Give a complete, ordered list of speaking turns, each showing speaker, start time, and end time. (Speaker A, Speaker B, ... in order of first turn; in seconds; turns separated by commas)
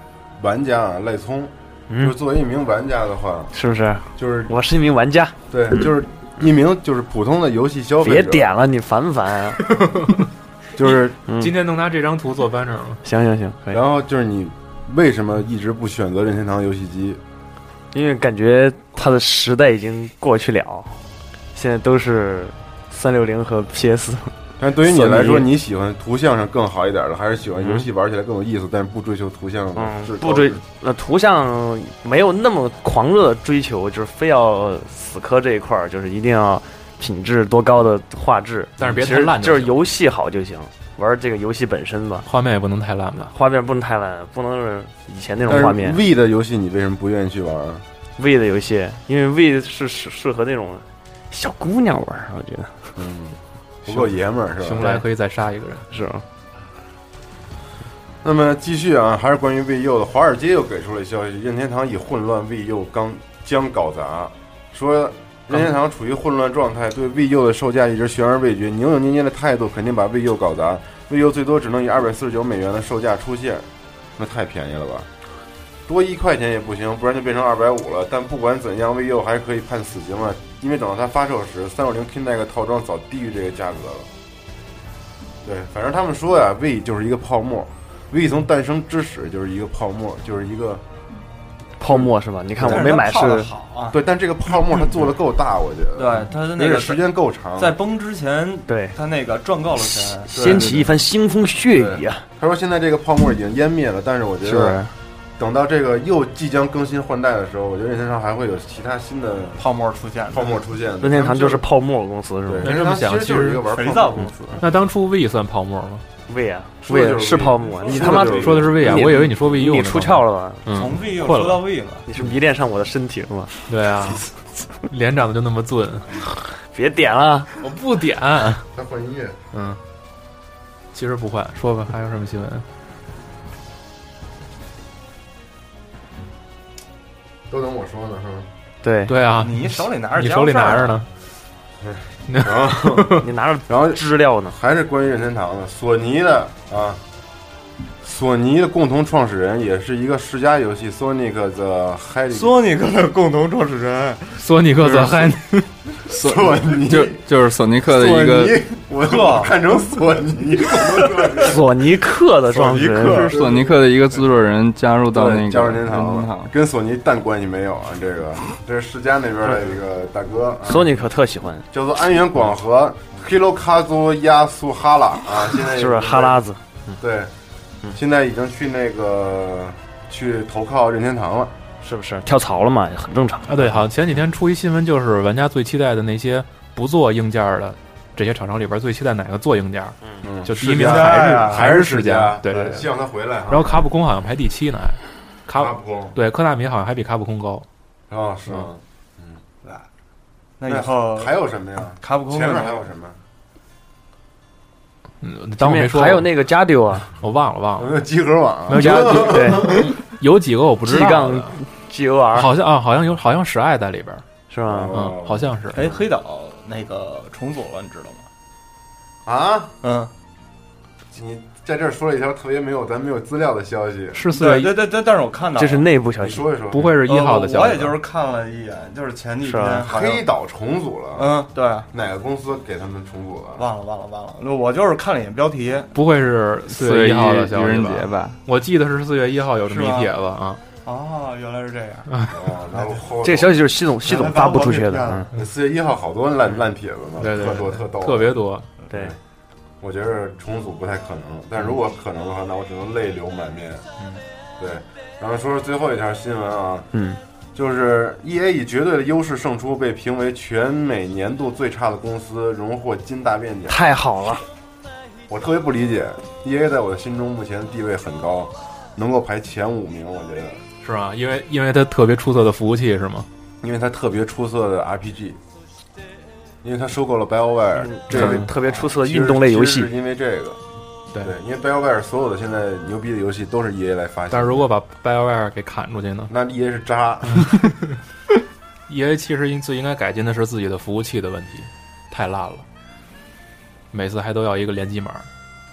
Speaker A: 0.4-3.5, Speaker B: 1.9-2.1, Speaker B: 3.5-5.3, Speaker A: 4.2-4.5, Speaker A: 5.5-8.5, Speaker B: 8.0-9.7, Speaker C: 9.7-10.1, Speaker A: 10.8-11.2, Speaker B: 11.3-11.5, Speaker C: 11.4-13.0, Speaker B: 13.0-13.8, Speaker A: 13.7-17.2, Speaker B: 17.9-21.0, Speaker B: 21.5-25.5, Speaker A: 24.6-30.6, Speaker B: 29.8-42.3, Speaker C: 38.8-39.8, Speaker C: 42.2-43.3, Speaker B: 43.2-46.0, Speaker A: 45.5-47.8, Speaker B: 48.2-52.9, Speaker A: 53.0-55.0, Speaker C: 53.9-55.9, Speaker B: 55.9-56.2, Speaker A: 58.2-75.1, Speaker A: 75.9-84.1, Speaker A: 85.4-90.8, Speaker B: 91.8-93.5, Speaker A: 91.8-93.0, Speaker D: 92.6-94.0, Speaker A: 93.9-97.8, Speaker D: 96.0-97.0, Speaker D: 97.6-100.4, Speaker B: 98.7-99.0, Speaker B: 100.3-102.2, Speaker A: 100.3-100.8, Speaker A: 101.7-104.8, Speaker B: 104.4-104.9, Speaker A: 105.4-109.6, Speaker D: 109.6-110.5, Speaker A: 110.3-111.6, Speaker B: 111.0-112.7, Speaker A: 112.5-114.5, Speaker C: 112.6-113.6, Speaker D: 113.7-114.6, Speaker C: 114.6-116.0, Speaker B: 116.3-120.7, Speaker A: 116.8-119.1, Speaker C: 118.3-121.6, Speaker D: 120.7-122.0, Speaker B: 122.1-123.6, Speaker C: 123.7-124.2, Speaker C: 124.9-126.1, Speaker B: 126.5-127.5, Speaker C: 127.6-128.7, Speaker A: 128.7-129.4, Speaker C: 129.5-129.8, Speaker C: 130.9-132.7, Speaker A: 137.5-138.5, Speaker B: 138.8-139.2, Speaker C: 139.1-141.1, Speaker D: 139.3-141.0, Speaker A: 141.8-147.0, Speaker C: 142.3-143.2, Speaker B: 143.2-144.6, Speaker A: 148.0-152.6, Speaker D: 152.3-155.2, Speaker C: 154.4-155.7, Speaker E: 156.1-158.6, Speaker A: 156.1-157.2, Speaker A: 157.9-161.6, Speaker D: 159.0-159.6, Speaker D: 160.8-161.4, Speaker B: 161.4-163.3, Speaker D: 162.5-163.4, Speaker E: 163.0-166.5, Speaker A: 163.3-163.8, Speaker A: 165.1-170.9, Speaker B: 170.6-171.7, Speaker A: 171.7-176.4, Speaker B: 175.6-177.0, Speaker A: 177.0-177.3, Speaker A: 177.9-181.5, Speaker B: 181.8-183.5, Speaker C: 183.5-192.8, Speaker A: 190.2-193.9, Speaker D: 190.6-191.7, Speaker C: 193.5-197.7, Speaker A: 195.6-196.2, Speaker A: 198.1-199.4, Speaker D: 200.6-201.4, Speaker A: 200.7-203.2, Speaker D: 202.0-202.8, Speaker C: 205.2-206.3, Speaker B: 205.6-207.1, Speaker C: 207.2-207.9, Speaker A: 207.8-209.9, Speaker C: 208.7-211.6, Speaker B: 208.7-209.9, Speaker B: 210.8-212.5, Speaker C: 212.3-214.2, Speaker B: 214.5-214.9, Speaker A: 214.7-215.5, Speaker C: 214.9-215.8, Speaker D: 215.7-218.3, Speaker A: 219.2-219.8, Speaker D: 219.8-220.1, Speaker A: 221.1-224.2, Speaker C: 224.1-224.8, Speaker D: 224.3-225.9, Speaker B: 225.6-226.5, Speaker A: 226.2-226.9, Speaker C: 226.7-228.0, Speaker D: 227.0-230.2, Speaker B: 229.4-229.9, Speaker A: 229.8-231.3, Speaker D: 231.2-231.9, Speaker A: 231.9-233.7, Speaker D: 233.6-235.9, Speaker C: 235.9-240.6, Speaker E: 236.7-238.4, Speaker D: 239.7-240.1, Speaker D: 240.8-242.1, Speaker A: 242.3-243.6, Speaker B: 243.2-245.3, Speaker D: 244.0-245.3, Speaker A: 245.3-248.3, Speaker C: 247.2-248.7, Speaker A: 249.8-253.8, Speaker A: 254.6-256.9, Speaker B: 256.9-257.2, Speaker A: 257.6-263.9, Speaker B: 263.7-264.4, Speaker A: 265.3-270.6, Speaker C: 270.8-273.3, Speaker A: 273.6-275.4, Speaker A: 276.6-280.6, Speaker B: 277.8-279.9, Speaker C: 278.1-278.5, Speaker A: 281.2-284.7, Speaker C: 284.3-286.3, Speaker A: 286.3-287.5, Speaker C: 288.9-292.6, Speaker C: 293.9-295.3